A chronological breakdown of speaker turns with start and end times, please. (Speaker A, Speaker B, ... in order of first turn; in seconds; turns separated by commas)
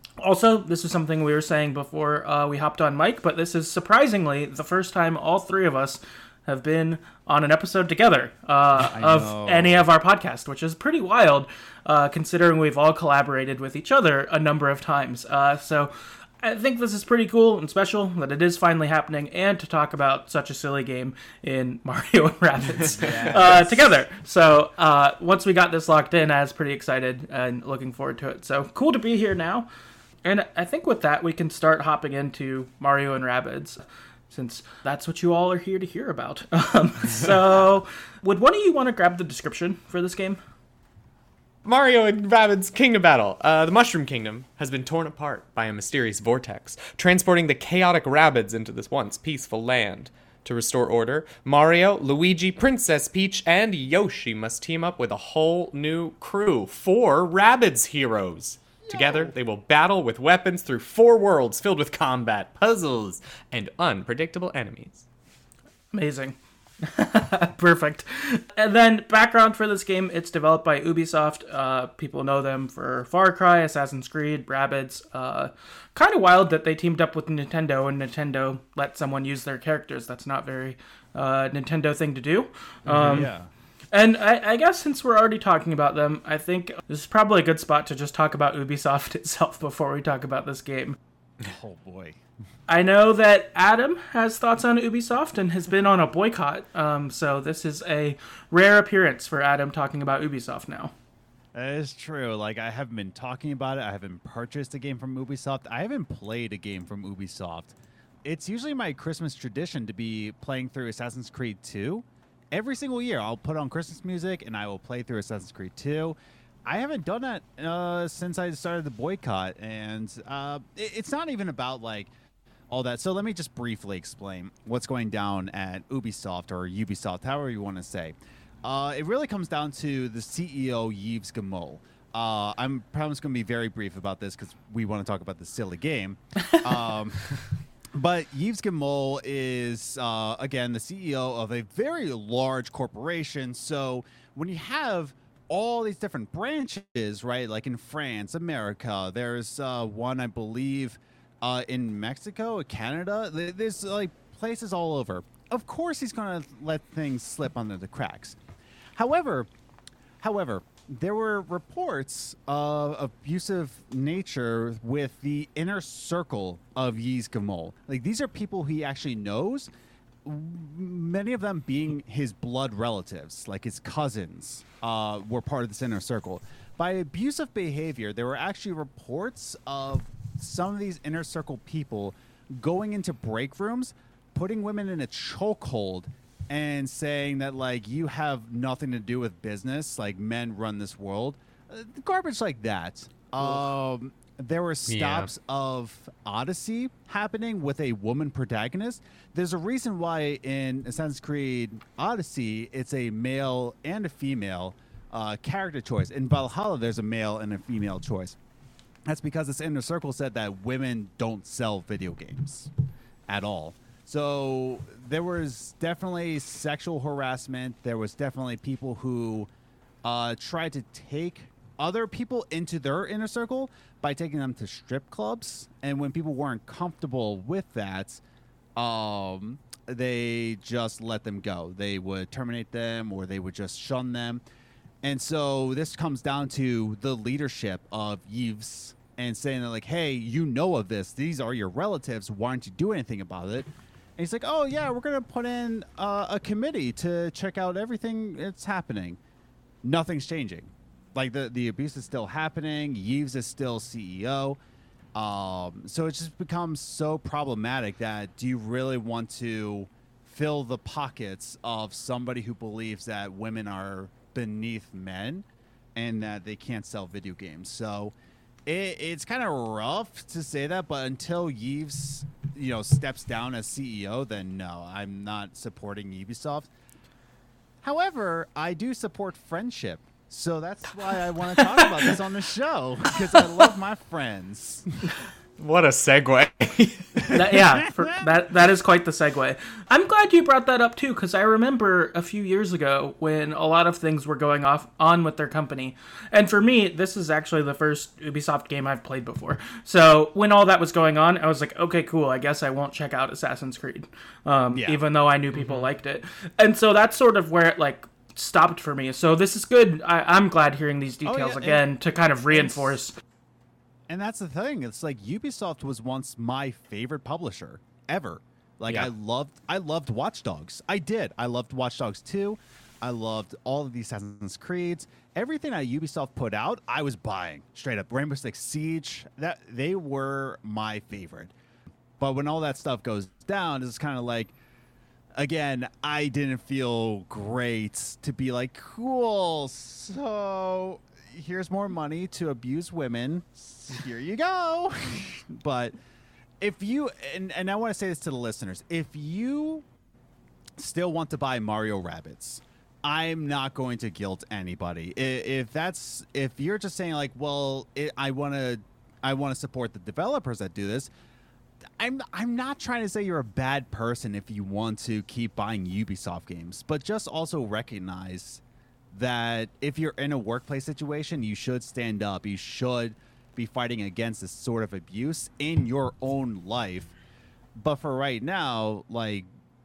Speaker A: 0.2-29.7, Speaker B: 8.8-9.9, Speaker B: 22.8-23.9, Speaker A: 30.2-40.4, Speaker C: 41.6-65.0, Speaker B: 58.8-59.3, Speaker A: 65.9-83.3, Speaker B: 82.9-83.5, Speaker C: 82.9-83.3, Speaker A: 83.9-91.0, Speaker B: 91.4-92.2, Speaker A: 92.7-100.9, Speaker B: 101.5-122.1, Speaker B: 122.7-137.4, Speaker B: 137.9-158.4, Speaker B: 158.9-159.5, Speaker B: 160.2-169.7, Speaker B: 170.2-208.4, Speaker C: 194.9-195.3, Speaker B: 209.1-212.7, Speaker B: 213.3-219.5, Speaker B: 220.0-228.2, Speaker B: 228.8-234.4, Speaker B: 235.0-249.2, Speaker B: 249.8-254.6, Speaker B: 255.1-268.1, Speaker B: 268.6-276.7, Speaker B: 277.8-285.1, Speaker C: 285.6-287.5, Speaker A: 287.3-313.2, Speaker B: 304.7-305.0, Speaker C: 305.6-305.9, Speaker B: 311.2-311.8, Speaker B: 312.5-313.0, Speaker B: 314.1-331.5, Speaker B: 332.2-334.5, Speaker B: 335.4-345.9, Speaker B: 346.6-349.9, Speaker B: 350.8-361.1, Speaker B: 362.0-377.1, Speaker B: 377.8-379.5